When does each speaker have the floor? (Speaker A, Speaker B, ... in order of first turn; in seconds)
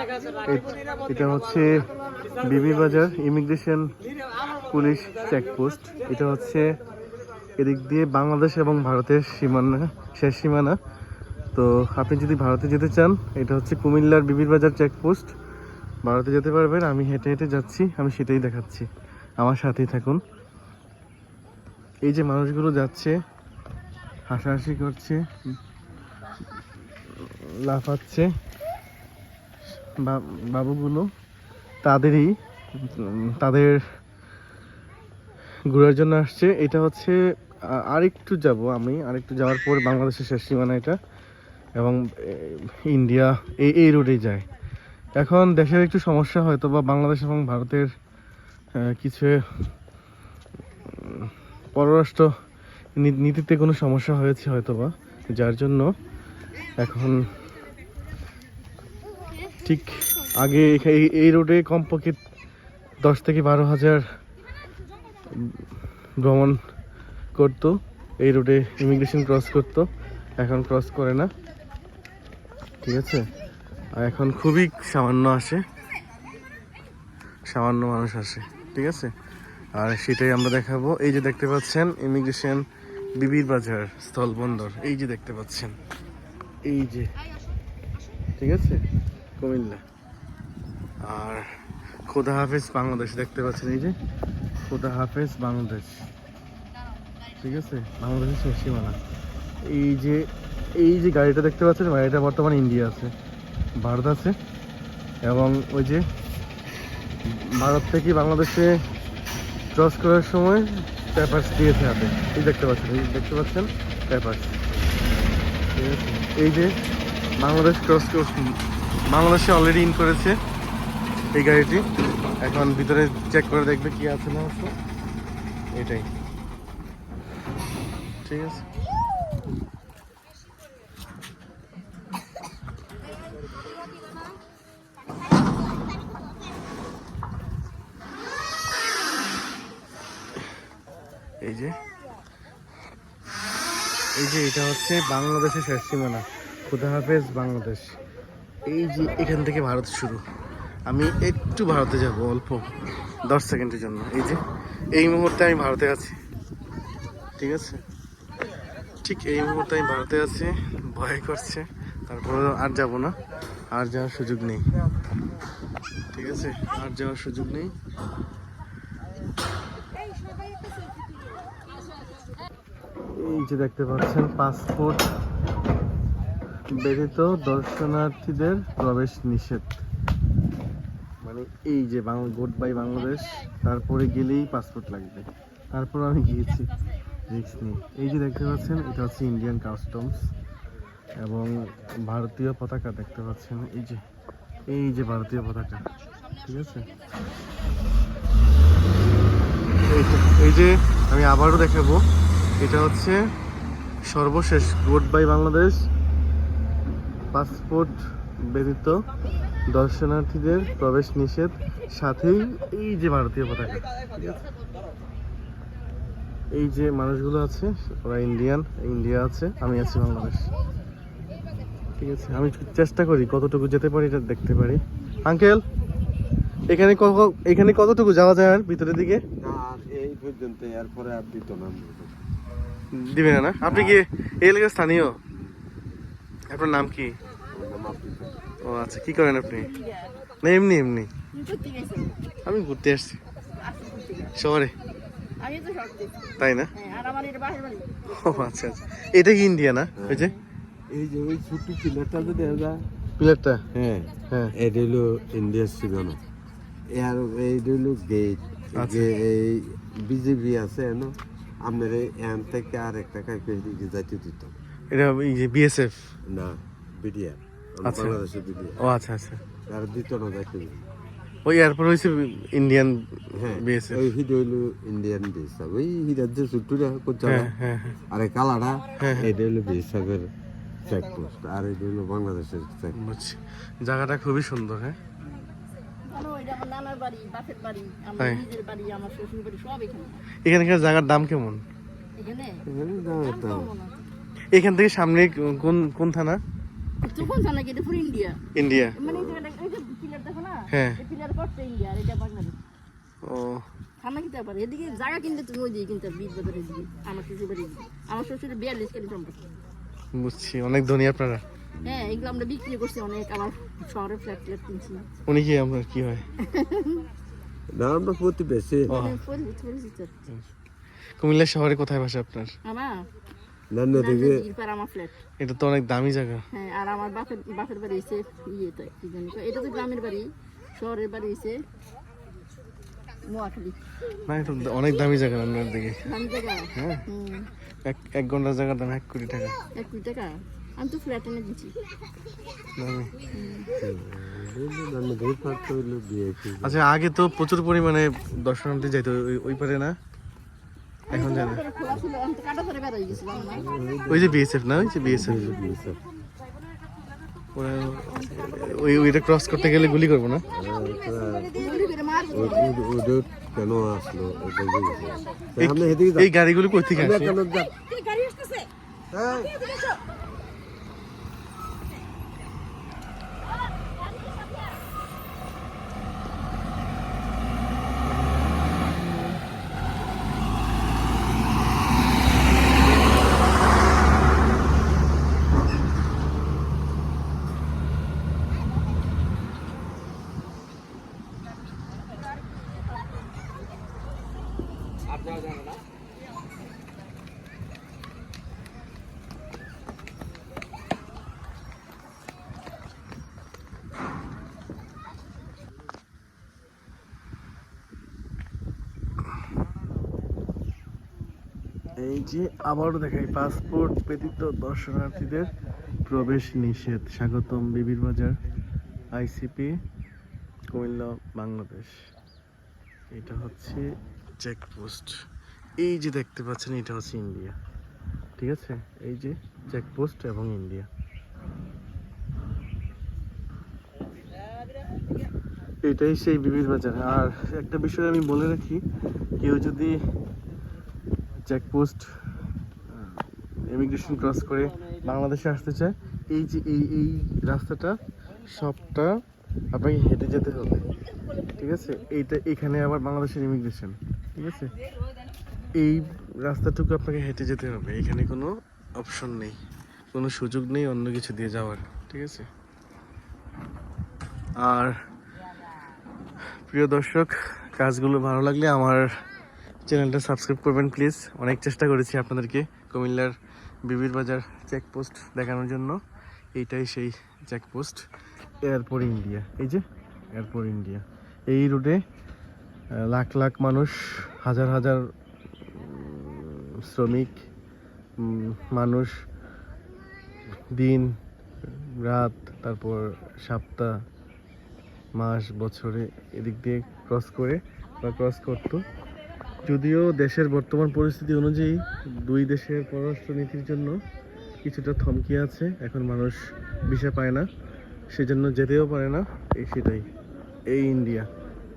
Speaker A: 0.4-1.8, 2.4-3.9, 4.7-6.7, 7.6-10.8, 11.5-15.3, 16.0-18.9, 19.4-20.2, 22.1-23.1, 24.3-25.5, 27.1-28.3, 30.0-31.1, 31.8-33.8, 35.7-37.1, 37.9-41.0, 41.8-44.5, 45.2-47.9, 48.8-49.4, 50.9-52.3, 53.0-55.9, 56.8-57.2, 59.6-62.2, 63.0-64.0, 65.3-65.6, 66.2-66.6, 67.3-71.3, 72.8-73.3, 74.0-75.6, 77.5-79.1, 79.7-82.6, 83.2-85.8, 86.6-87.1, 88.4-88.8, 89.4-89.8, 91.0-91.4, 92.1-93.9, 94.7-96.1, 97.4-99.0, 99.6-103.1, 103.8-104.3, 105.2-106.0, 107.2-108.8, 109.7-114.5, 115.7-116.7, 117.4-118.6, 119.1-120.4, 121.3-121.8, 122.4-124.7, 125.7-126.1, 128.2-128.6, 141.4-141.8, 144.2-147.9, 148.7-150.2, 150.9-152.7, 153.3-154.4, 154.9-156.2, 157.4-157.8, 159.0-163.2, 163.7-164.7, 166.1-167.7, 173.1-175.0, 176.8-179.8, 181.2-186.7, 187.3-190.3, 191.2-191.5, 192.1-194.0, 194.7-195.9, 196.4-196.9, 199.9-202.0, 202.6-203.2, 204.1-205.8, 207.3-208.0, 208.5-209.0, 209.7-214.4, 216.5-220.5, 222.0-225.6, 226.7-229.2, 232.9-235.1, 236.5-237.1, 238.6-239.7, 240.4-241.1, 242.4-243.2, 244.3-244.7, 246.4-246.7, 248.1-250.3, 253.2-254.5, 258.8-259.1, 264.9-266.1, 267.8-268.2, 268.8-269.4, 271.4-274.1, 277.2-278.0, 279.0-279.3, 282.9-285.0, 290.4-291.6, 294.5-296.4, 298.5-298.9, 300.7-301.0, 303.2-303.6, 310.1-311.4, 315.2-316.2, 318.9-319.2, 321.2-322.5, 325.4-326.4, 334.2-336.0, 336.7-337.0, 337.8-339.6, 342.8-343.1, 346.6-349.9, 351.1-351.6, 354.1-355.5, 357.5-360.4, 365.6-367.4, 412.0-415.5, 416.1-418.4, 419.1-419.8, 420.7-422.0, 423.1-423.9, 424.4-425.2, 425.8-427.6, 428.4-430.9, 435.8-438.8, 439.4-440.0, 441.5-442.1, 442.9-448.0, 448.5-449.1, 449.7-450.8, 451.6-454.7, 455.8-459.6, 460.1-462.5, 464.6-464.9, 466.7-469.1, 469.9-476.0, 476.5-478.0, 478.6-482.0, 482.9-485.0, 485.6-487.4, 488.2-489.1, 490.7-491.1, 491.6-493.9, 495.1-498.8, 499.6-504.0, 504.6-507.5, 508.1-510.1, 510.7-511.3
Speaker B: 229.4-232.1, 233.6-234.0, 237.5-238.4, 250.0-250.3, 250.9-252.8, 254.5-256.2, 256.9-264.5, 266.3-268.8, 269.7-270.9, 273.3-277.5, 278.1-280.3, 280.9-283.0, 292.6-293.7, 299.1-299.4, 311.8-312.4, 317.7-318.9, 323.7-324.4, 343.8-346.8, 353.3-356.0, 360.5-361.6, 362.3-366.3, 366.9-367.7, 369.1-369.5
Speaker C: 239.4-240.2, 241.3-242.2, 243.6-244.4, 245.4-248.4, 286.1-290.2, 292.2-294.0, 297.0-298.4, 298.9-302.6, 304.0-309.4, 311.8-315.1, 316.4-317.0, 318.9-320.1, 322.6-323.1, 323.9-325.1, 326.5-331.6, 333.2-333.8, 336.0-337.5, 339.7-341.7, 343.3-343.7, 351.1-353.6, 361.5-362.7